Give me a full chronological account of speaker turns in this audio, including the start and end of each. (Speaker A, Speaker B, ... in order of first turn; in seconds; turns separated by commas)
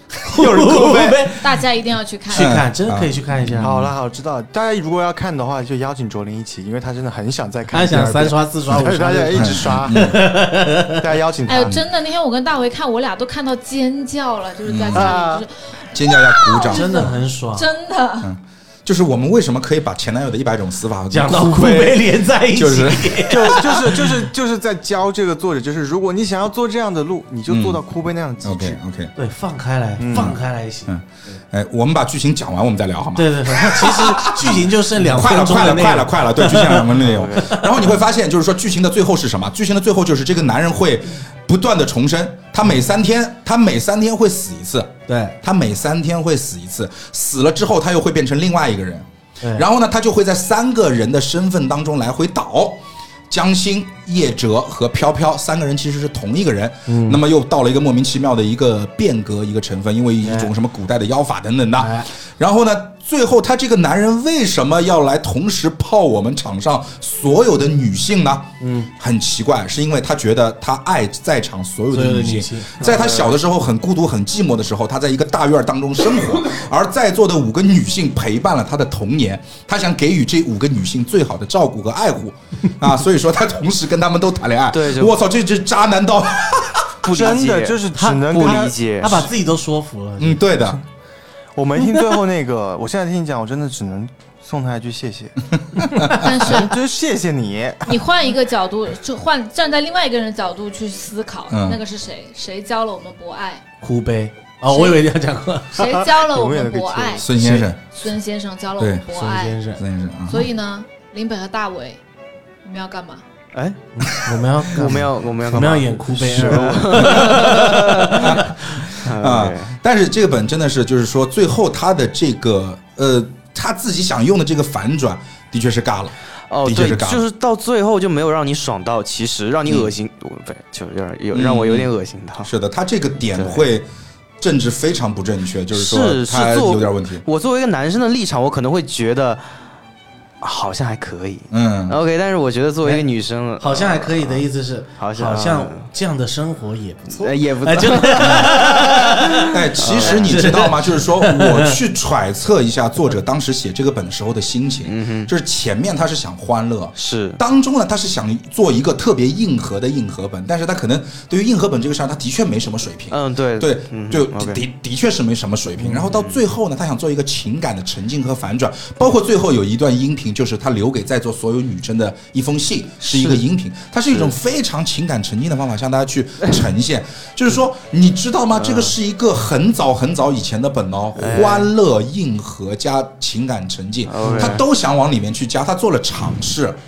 Speaker A: 0.2-1.5, Speaker B: 0.3-1.2, Speaker C: 1.3-2.6, Speaker A: 2.3-3.8, Speaker B: 2.3-3.9, Speaker D: 3.6-10.2, Speaker A: 7.7-11.0, Speaker B: 9.3-10.2, Speaker D: 11.0-11.8, Speaker C: 11.4-18.3, Speaker B: 14.6-15.2, Speaker D: 14.9-15.4, Speaker B: 15.9-17.1, Speaker A: 16.6-17.7, Speaker B: 18.2-24.0, Speaker A: 21.1-23.9, Speaker D: 23.3-28.8, Speaker B: 27.5-27.8, Speaker B: 28.4-29.1, Speaker A: 29.1-30.9, Speaker D: 30.0-30.4, Speaker B: 30.1-87.0, Speaker A: 33.1-37.6, Speaker E: 36.9-37.6, Speaker A: 45.1-45.3, Speaker A: 49.4-49.6, Speaker A: 56.9-57.2, Speaker A: 60.2-60.5, Speaker A: 61.8-62.1, Speaker A: 68.6-68.9, Speaker A: 71.9-72.9, Speaker E: 72.9-73.3, Speaker E: 84.7-85.2, Speaker E: 87.0-89.3, Speaker D: 87.1-89.2, Speaker A: 87.9-90.5, Speaker B: 90.2-90.8, Speaker D: 91.5-95.4, Speaker B: 95.7-96.1, Speaker C: 96.1-96.8, Speaker D: 96.2-98.0, Speaker C: 97.8-103.6, Speaker B: 101.5-101.8, Speaker A: 103.8-105.9, Speaker C: 104.7-105.0, Speaker C: 105.7-107.3, Speaker D: 105.8-107.7, Speaker B: 107.2-107.8, Speaker C: 107.8-109.6, Speaker B: 108.8-109.0, Speaker A: 109.1-109.8, Speaker B: 109.8-110.5, Speaker C: 110.3-112.0, Speaker C: 112.6-113.2, Speaker A: 113.9-118.5, Speaker E: 114.7-119.8, Speaker D: 116.2-117.5, Speaker B: 117.0-117.6, Speaker B: 118.2-127.2, Speaker E: 126.5-132.5, Speaker B: 129.7-129.9, Speaker B: 131.3-131.9, Speaker B: 132.4-133.9, Speaker E: 133.3-133.6, Speaker B: 134.4-137.2, Speaker E: 135.7-139.4, Speaker E: 140.4-144.4, Speaker B: 141.5-142.0, Speaker A: 143.6-151.8, Speaker E: 145.0-145.9, Speaker E: 147.1-150.6, Speaker B: 149.5-186.8, Speaker E: 154.8-155.3, Speaker E: 156.9-157.4, Speaker E: 163.1-164.6, Speaker E: 165.9-166.4, Speaker E: 173.0-173.4, Speaker E: 178.6-178.9, Speaker E: 181.2-181.7, Speaker E: 184.1-184.6, Speaker A: 184.2-184.5